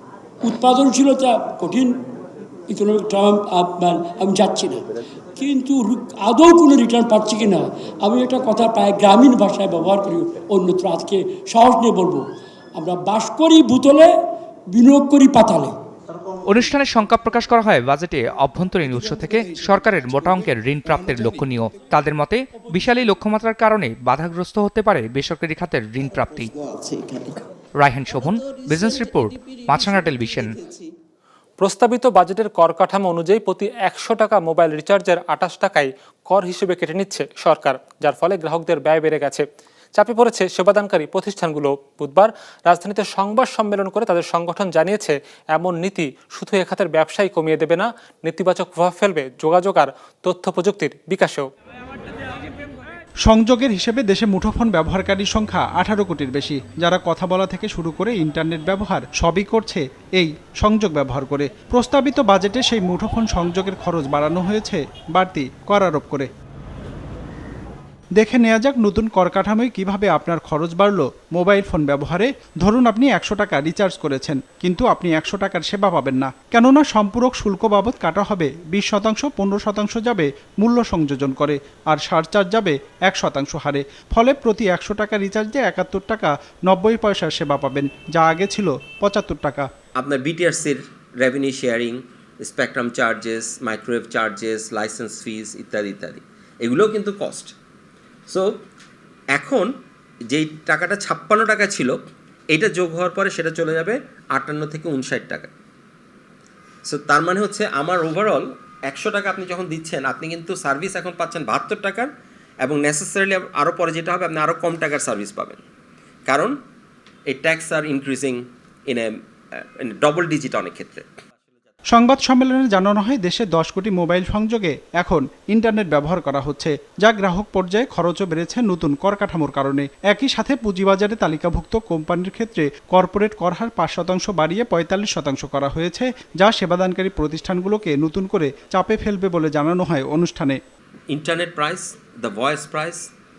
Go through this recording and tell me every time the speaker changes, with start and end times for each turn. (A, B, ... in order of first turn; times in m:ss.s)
0:00.4-0:02.0 A
0:02.7-0:12.2 A
0:12.8-0:14.1 A
0:14.7-0:15.7 A
0:16.5-0:26.5 B
0:27.8-0:30.6 B
0:31.6-0:51.5 C
0:53.2-1:06.3 D
1:08.2-1:29.7 D
1:30.0-1:37.5 E
1:38.3-1:38.6 E
1:39.3-1:39.7 E
1:40.3-1:45.5 E
1:46.9-1:52.1 E
1:52.6-1:55.6 E
1:56.3-1:56.6 E
1:57.2-2:01.1 E
2:01.9-2:20.6 D
2:21.1-2:23.1 E